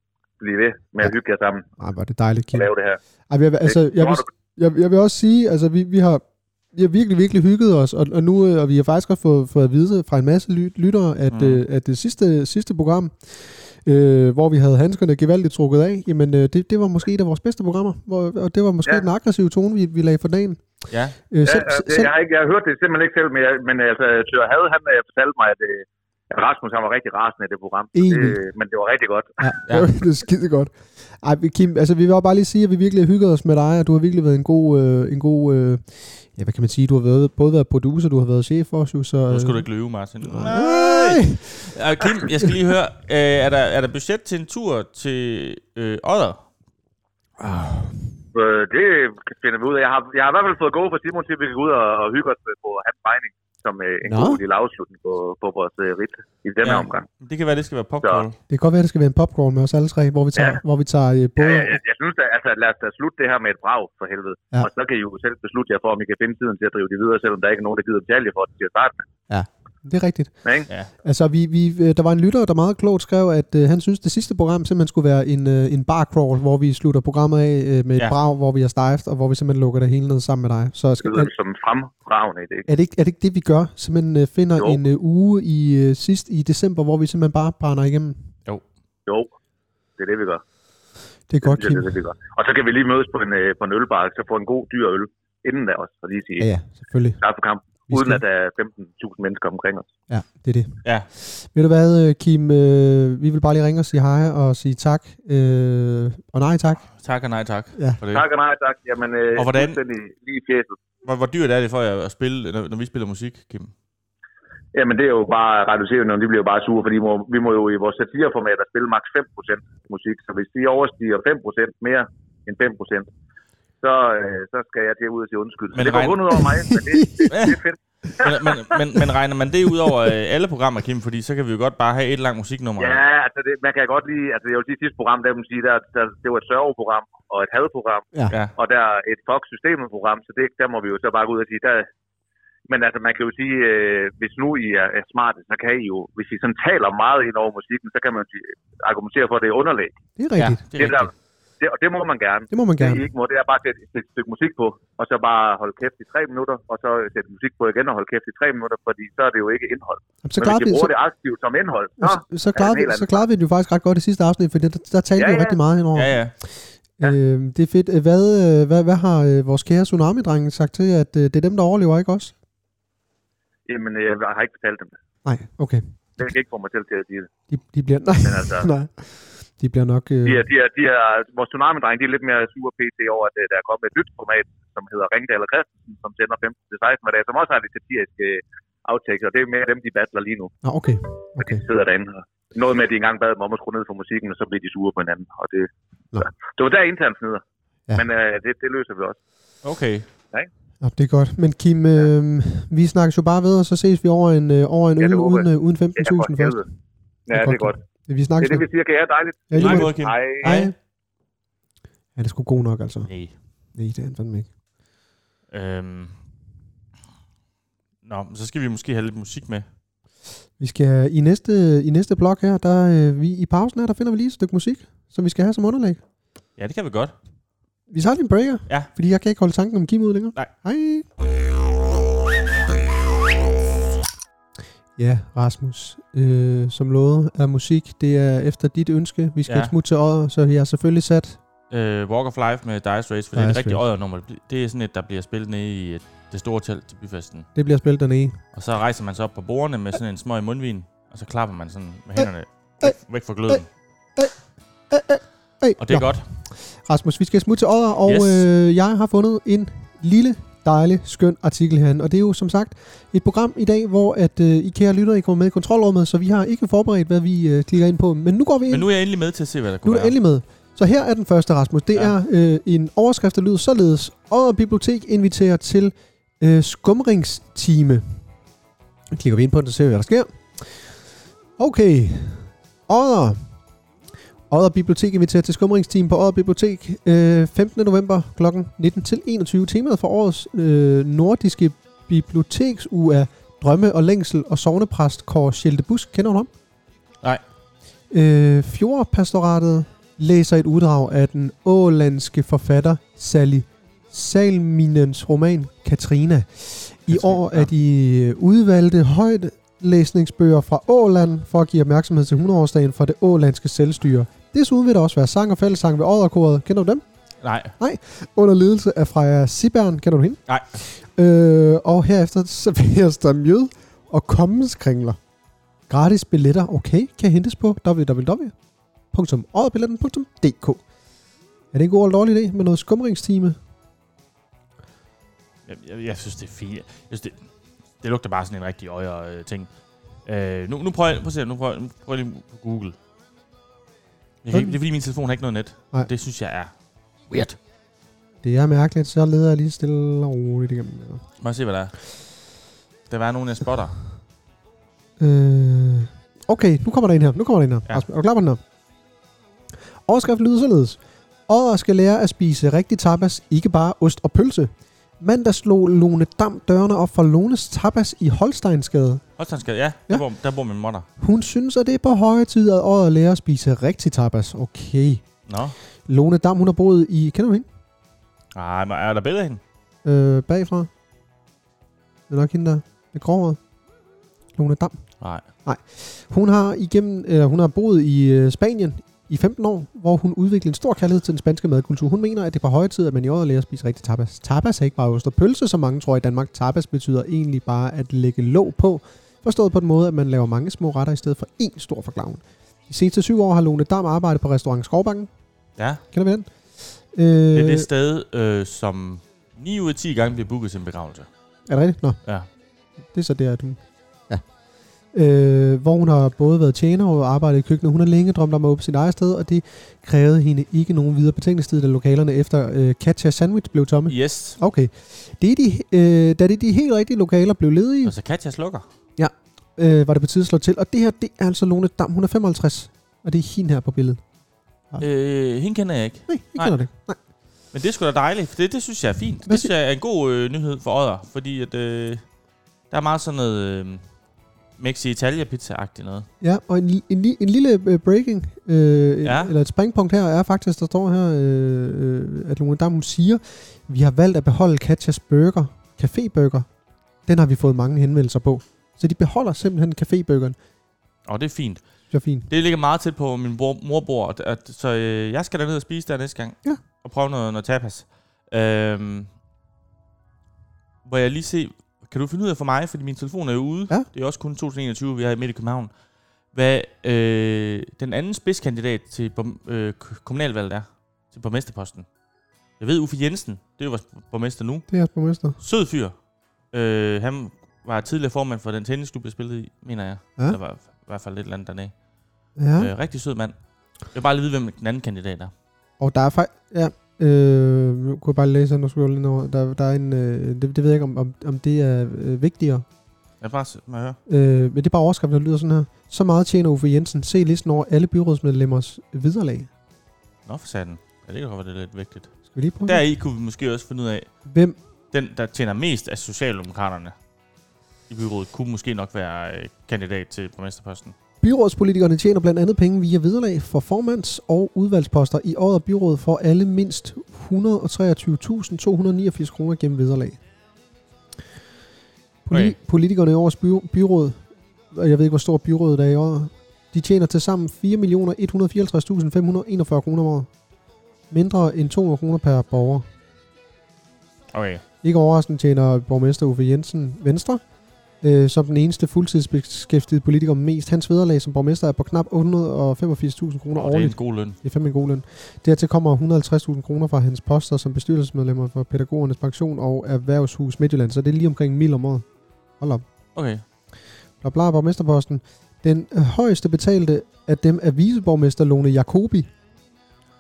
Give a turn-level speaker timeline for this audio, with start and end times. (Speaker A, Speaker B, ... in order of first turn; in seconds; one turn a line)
Speaker A: 0.4-1.7
Speaker B: 1.8-2.7
Speaker A: 2.5-3.0
Speaker B: 3.3-20.7
Speaker A: 3.7-4.3
Speaker C: 11.3-11.6
Speaker C: 20.9-21.2
Speaker B: 21.3-22.1
Speaker A: 21.4-29.4
Speaker B: 27.9-28.4
Speaker B: 29.4-39.7
Speaker C: 39.3-46.4
Speaker B: 40.2-41.7
Speaker B: 47.4-48.1
Speaker A: 48.3-57.1
Speaker B: 54.0-54.4
Speaker C: 56.6-58.4
Speaker B: 58.5-61.8
Speaker A: 61.4-69.0
Speaker B: 69.3-70.4
Speaker B: 71.0-81.3
Speaker A: 81.0-82.7
Speaker B: 82.7-88.3
Speaker A: 90.0-90.4
Speaker B: 91.3-91.9
Speaker A: 91.4-96.5
Speaker B: 96.4-97.2
Speaker A: 97.2-99.9
Speaker B: 97.9-98.2
Speaker B: 100.1-106.9
Speaker C: 107.0-108.2
Speaker B: 107.8-108.0
Speaker A: 108.1-110.8
Speaker C: 109.4-109.8
Speaker C: 111.0-113.7
Speaker A: 114.8-123.1
Speaker A: 123.8-128.8
Speaker C: 125.7-126.2
Speaker B: 126.3-127.3
Speaker C: 127.3-127.6
Speaker C: 128.2-133.0
Speaker A: 132.8-141.9
Speaker A: 142.7-150.0
Speaker B: 150.2-150.6
Speaker C: 150.4-151.1
Speaker A: 150.8-163.2
Speaker B: 152.5-153.1
Speaker B: 160.2-160.9
Speaker B: 162.0-172.3
Speaker A: 165.2-165.6
Speaker C: 165.9-166.3
Speaker A: 173.7-175.0
Speaker B: 175.2-175.8
Speaker A: 176.2-177.3
Speaker B: 177.5-180.4
Speaker A: 178.2-178.7
Speaker A: 180.2-190.5
Speaker B: 190.6-191.6
Speaker A: 191.4-197.4
Speaker A: 197.9-199.2
Speaker C: 199.6-200.1
Speaker B: 200.8-206.6
Speaker A: 205.0-206.6
Speaker A: 207.3-207.8
Speaker B: 207.3-208.7
Speaker A: 208.4-210.6
Speaker B: 209.5-210.8
Speaker C: 209.6-210.7
Speaker B: 212.2-213.1
Speaker C: 213.1-213.3
Speaker B: 213.8-214.5
Speaker C: 215.5-216.2
Speaker C: 218.0-219.7
Speaker B: 220.6-226.0
Speaker C: 226.6-227.2
Speaker B: 227.9-231.1
Speaker B: 235.0-241.4
Speaker C: 239.5-239.7
Speaker C: 241.7-247.5
Speaker B: 243.3-243.8
Speaker B: 247.6-248.4
Speaker C: 248.5-253.7
Speaker B: 254.9-268.9
Speaker C: 255.8-256.3
Speaker C: 258.1-258.5
Speaker C: 268.7-270.1
Speaker B: 269.8-278.2
Speaker B: 279.1-281.0
Speaker B: 281.6-283.5
Speaker B: 284.5-296.5
Speaker B: 298.1-317.0
Speaker C: 307.1-307.7
Speaker C: 317.4-317.8
Speaker B: 317.8-325.2
Speaker C: 320.5-320.8
Speaker B: 325.9-328.5
Speaker B: 329.1-330.8
Speaker B: 331.7-333.6
Speaker C: 335.7-337.4
Speaker C: 338.0-339.7
Speaker C: 340.2-343.0
Speaker C: 344.4-346.7
Speaker C: 347.3-347.6
Speaker B: 348.4-351.2
Speaker C: 351.4-351.9
Speaker C: 353.1-353.9
Speaker B: 355.2-358.6
Speaker B: 360.1-369.2
Speaker C: 369.4-371.1
Speaker B: 371.2-375.2
Speaker C: 375.5-375.8
Speaker B: 376.1-377.7
Speaker C: 378.5-379.6
Speaker B: 380.1-380.9
Speaker B: 382.3-383.6
Speaker B: 384.6-385.0
Speaker C: 385.2-385.4
Speaker B: 385.6-405.3
Speaker C: 405.8-406.0
Speaker B: 406.1-407.9
Speaker C: 407.5-411.3
Speaker B: 411.7-412.2
Speaker B: 413.1-414.5
Speaker B: 415.1-428.1
Speaker C: 424.1-424.6
Speaker C: 428.0-428.9
Speaker B: 429.2-434.2
Speaker C: 435.0-436.8
Speaker B: 436.3-437.2
Speaker C: 437.7-442.2
Speaker B: 439.5-439.7
Speaker C: 442.9-444.0
Speaker C: 444.8-446.3
Speaker B: 446.4-456.7
Speaker C: 449.2-449.5
Speaker B: 457.3-460.6
Speaker C: 461.2-461.8
Speaker B: 462.1-462.5
Speaker C: 462.5-469.3
Speaker C: 471.1-475.9
Speaker C: 476.5-482.1
Speaker C: 482.8-484.9
Speaker B: 484.9-485.6
Speaker C: 485.6-486.2
Speaker C: 486.7-492.0
Speaker B: 492.6-492.9
Speaker C: 492.8-495.5
Speaker B: 496.0-502.9
Speaker C: 503.4-504.2
Speaker B: 504.3-509.7
Speaker C: 510.5-512.3
Speaker B: 512.5-513.0
Speaker C: 512.9-514.3
Speaker B: 514.5-514.8
Speaker C: 515.1-517.2
Speaker C: 518.1-521.1
Speaker B: 521.4-530.4
Speaker B: 532.5-540.5
Speaker C: 532.5-532.8
Speaker B: 541.3-543.1
Speaker C: 544.5-544.8
Speaker B: 545.0-547.6
Speaker B: 548.2-562.3
Speaker C: 553.8-554.6
Speaker B: 562.8-563.0
Speaker C: 563.4-563.6
Speaker B: 564.4-569.5